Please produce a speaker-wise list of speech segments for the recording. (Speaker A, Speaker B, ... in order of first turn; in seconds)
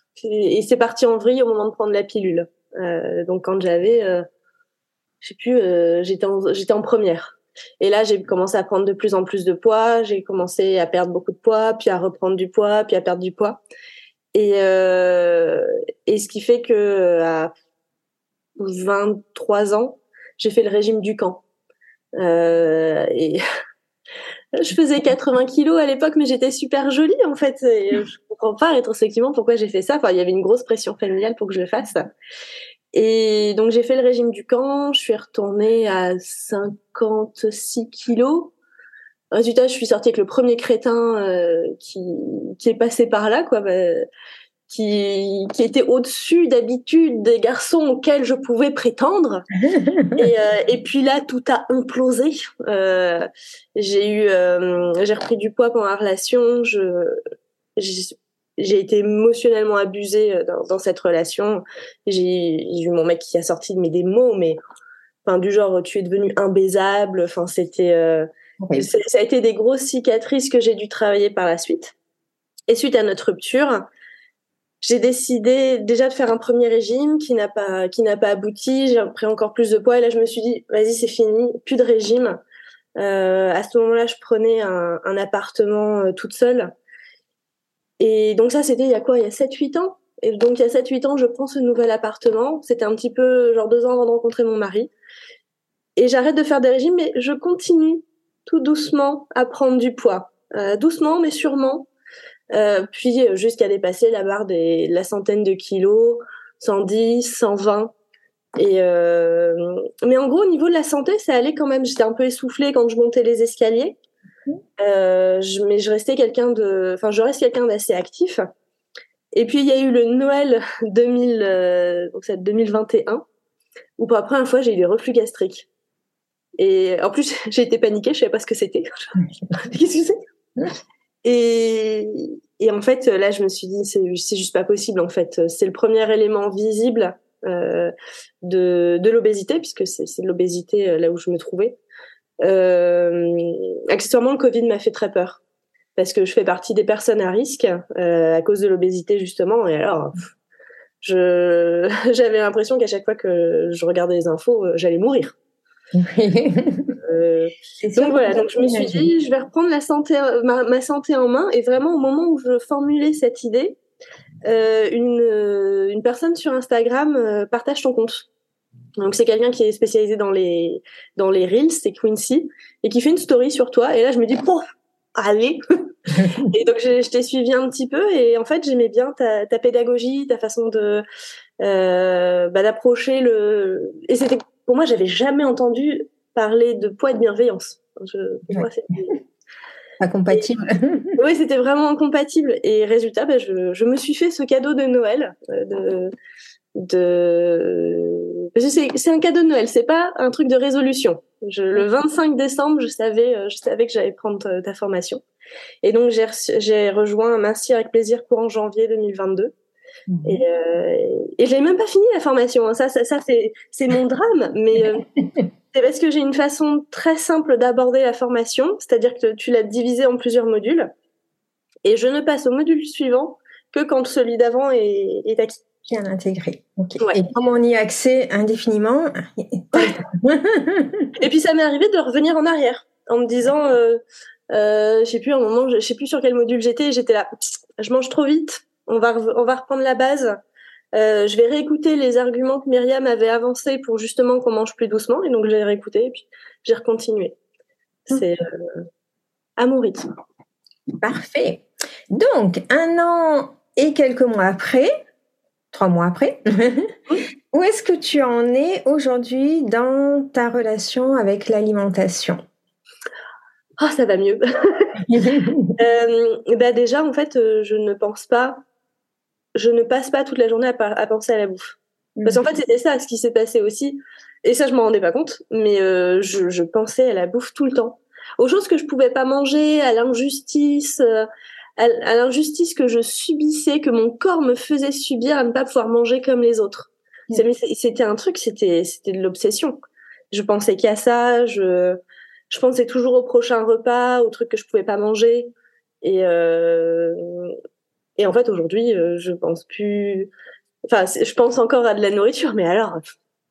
Speaker A: 0.1-4.2, 5.2-13.6, 14.3-17.5, 18.6-21.4, 22.2-23.4, 24.5-32.1, 32.9-38.5, 39.3-44.1, 44.7-49.5, 50.1-57.2, 57.8-64.6, 65.2-71.9, 72.7-73.9, 74.8-82.4, 83.0-86.7, 88.0-94.9, 96.0-101.9, 102.5-107.9, 108.6-114.0, 114.8-118.5, 119.3-123.2, 124.0-125.7, 126.6-130.2, 131.2-141.8, 142.4-145.4, 146.0-150.2, 151.0-155.3, 157.0-163.8, 164.4-168.3, 169.0-174.6, 175.2-175.6, 176.1-181.0, 181.6-189.2, 191.2-196.1, 196.8-205.2, 205.8-209.5, 210.2-215.1, 215.7-220.9, 221.8-225.6, 229.7-230.0, 231.2-240.4, 240.9-247.3, 248.1-248.7, 249.6-250.1, 263.8-268.6, 269.5-289.8, 290.3-292.0, 292.5-295.5, 296.0-297.6, 298.2-300.3, 300.9-303.0
Speaker B: 49.6-50.2, 68.6-68.8, 155.9-157.0, 157.8-159.1, 190.0-191.2, 210.1-210.4, 225.8-231.1, 251.0-254.9, 255.7-256.9, 257.5-262.4, 265.1-265.7